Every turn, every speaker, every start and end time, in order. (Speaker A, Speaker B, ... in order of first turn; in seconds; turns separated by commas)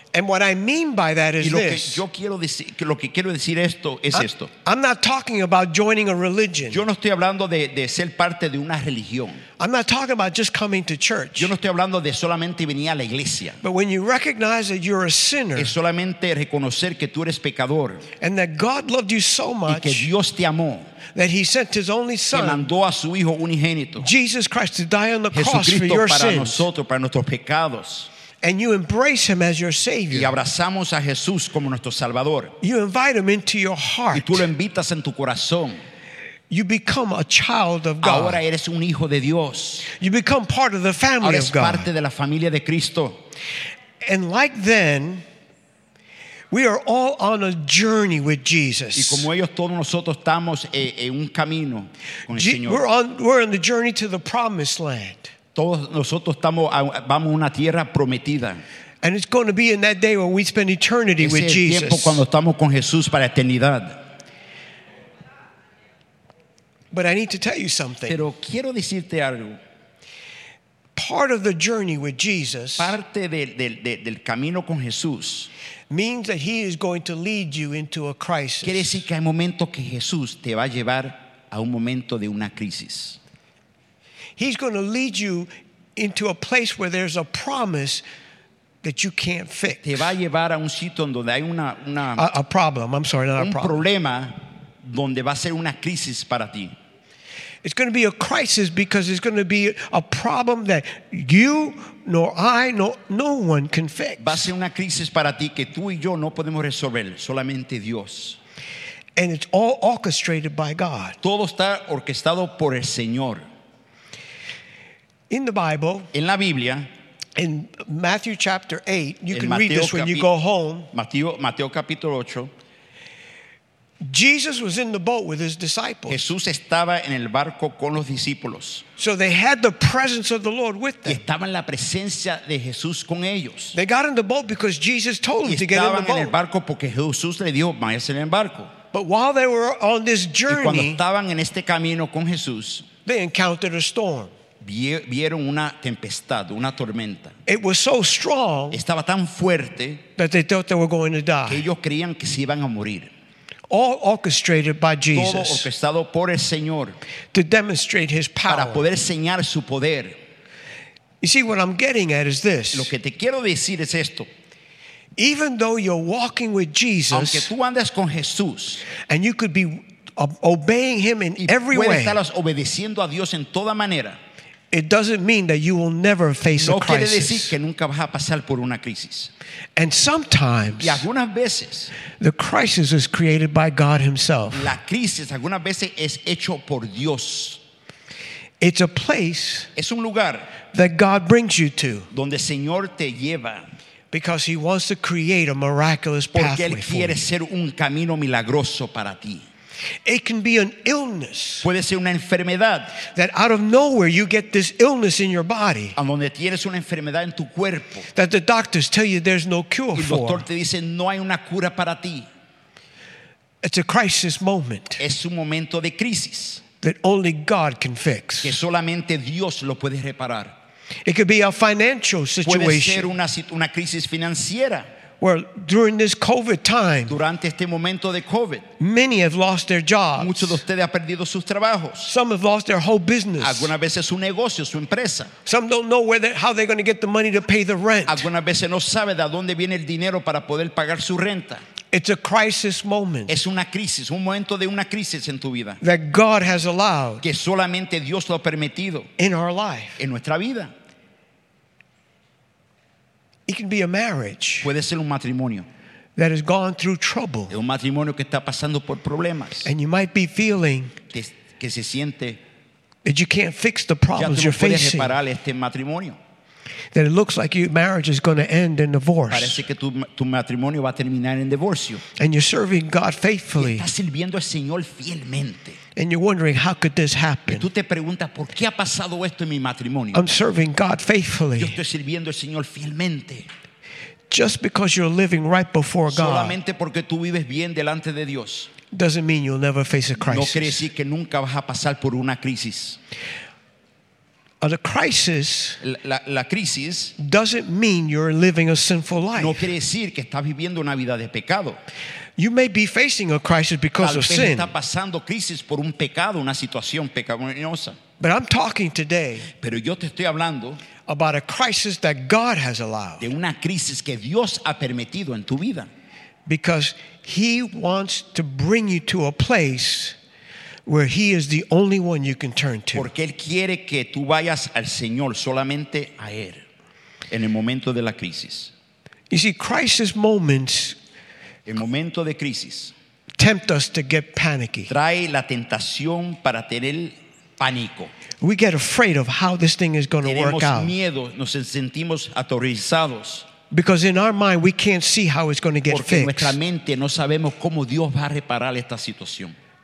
Speaker A: 0.1-2.0, Speaker B: 1.4-4.5, Speaker A: 4.1-6.8, Speaker B: 6.7-9.4, Speaker A: 9.6-11.5, Speaker B: 11.3-13.6, Speaker A: 13.6-15.7, Speaker B: 15.5-18.0, Speaker A: 18.2-20.1, Speaker B: 19.7-20.9, Speaker A: 21.1-22.7, Speaker B: 22.3-24.1, Speaker A: 24.0-26.7, Speaker B: 25.3-28.1, Speaker A: 28.4-30.4, Speaker B: 30.1-32.5, Speaker A: 32.6-34.5, Speaker B: 34.1-35.8, Speaker A: 36.5-38.4, Speaker B: 38.0-39.9, Speaker A: 39.9-41.9, Speaker B: 41.2-43.2, Speaker A: 44.0-45.2, Speaker A: 46.5-49.3, Speaker B: 48.9-52.8, Speaker A: 52.3-55.3, Speaker B: 55.5-58.6, Speaker A: 59.0-62.2, Speaker B: 61.2-64.0, Speaker A: 66.9-68.2, Speaker B: 68.1-69.6, Speaker A: 71.0-73.0, Speaker B: 72.8-75.5, Speaker A: 75.9-78.9, Speaker B: 78.6-83.2, Speaker A: 84.4-88.0, Speaker A: 88.8-90.0, Speaker B: 89.8-92.2, Speaker A: 92.2-93.8, Speaker B: 93.4-96.7, Speaker A: 97.6-104.5, Speaker B: 104.2-108.4, Speaker A: 109.2-111.2, Speaker B: 111.2-113.4, Speaker A: 115.3-116.1, Speaker B: 116.1-116.9, Speaker A: 117.4-120.9, Speaker B: 119.3-120.3, Speaker B: 120.9-122.5, Speaker A: 124.0-126.2, Speaker B: 126.1-128.8, Speaker A: 129.0-131.2, Speaker B: 131.0-133.8, Speaker A: 133.7-136.3, Speaker B: 135.4-138.7, Speaker A: 138.9-141.0, Speaker B: 140.5-142.9, Speaker A: 143.1-144.3, Speaker B: 144.6-147.3, Speaker A: 147.4-148.8, Speaker B: 148.7-150.0, Speaker A: 150.2-151.7, Speaker B: 151.5-153.1, Speaker A: 153.7-155.7, Speaker B: 155.1-157.0, Speaker A: 157.3-158.9, Speaker B: 158.5-160.2, Speaker A: 161.2-162.9, Speaker B: 162.7-164.3, Speaker A: 165.2-167.5, Speaker B: 167.1-168.8, Speaker A: 168.9-172.2, Speaker B: 171.4-174.2, Speaker A: 174.7-177.5, Speaker B: 176.5-179.3, Speaker A: 179.8-181.0, Speaker B: 180.8-181.9, Speaker A: 182.2-184.7, Speaker B: 184.5-187.6, Speaker A: 188.6-189.7, Speaker B: 189.8-190.5, Speaker A: 190.7-192.1, Speaker B: 192.1-193.6, Speaker A: 194.1-197.2, Speaker B: 196.3-199.5, Speaker A: 200.0-201.7, Speaker B: 201.6-203.0, Speaker A: 203.1-206.0, Speaker B: 205.9-208.1, Speaker A: 208.1-210.4, Speaker B: 209.9-212.3, Speaker A: 213.6-215.0, Speaker B: 215.0-216.6, Speaker A: 216.8-218.6, Speaker B: 218.4-220.5, Speaker A: 221.1-223.1, Speaker B: 222.4-224.8, Speaker A: 225.2-227.2, Speaker B: 227.1-228.6, Speaker A: 228.8-230.6, Speaker B: 230.2-232.1, Speaker A: 232.0-233.7, Speaker B: 233.4-235.3, Speaker A: 235.4-238.3, Speaker B: 238.1-241.6, Speaker A: 241.9-243.3, Speaker B: 243.3-245.8, Speaker A: 245.8-247.2, Speaker B: 247.2-249.1, Speaker A: 249.2-250.0, Speaker B: 250.0-250.7, Speaker A: 253.5-254.7, Speaker B: 254.6-255.7, Speaker A: 256.2-257.5, Speaker B: 257.5-259.7, Speaker A: 259.6-260.9, Speaker B: 261.1-262.4, Speaker A: 263.0-265.1, Speaker B: 264.1-266.2, Speaker A: 266.9-269.6, Speaker B: 269.3-272.0, Speaker A: 272.1-273.9, Speaker B: 273.6-275.8, Speaker A: 275.9-277.7, Speaker B: 277.5-280.2, Speaker A: 280.1-281.8, Speaker B: 281.6-283.5, Speaker A: 284.3-286.6, Speaker B: 286.1-288.7, Speaker A: 288.9-290.8, Speaker B: 290.2-293.0, Speaker A: 294.6-295.8, Speaker B: 295.8-297.1, Speaker A: 297.2-299.7, Speaker B: 299.4-301.8, Speaker A: 302.4-304.7, Speaker B: 304.0-308.0, Speaker A: 308.2-309.5, Speaker B: 309.5-310.8, Speaker A: 311.1-313.3, Speaker B: 313.2-315.9, Speaker A: 316.5-320.1, Speaker A: 320.9-323.1, Speaker B: 322.9-326.6, Speaker B: 327.3-328.7, Speaker A: 329.3-331.0, Speaker B: 331.6-332.9, Speaker A: 333.4-334.9, Speaker B: 334.9-338.1, Speaker A: 338.4-340.9, Speaker B: 340.2-343.5, Speaker A: 343.7-346.6, Speaker B: 345.9-349.6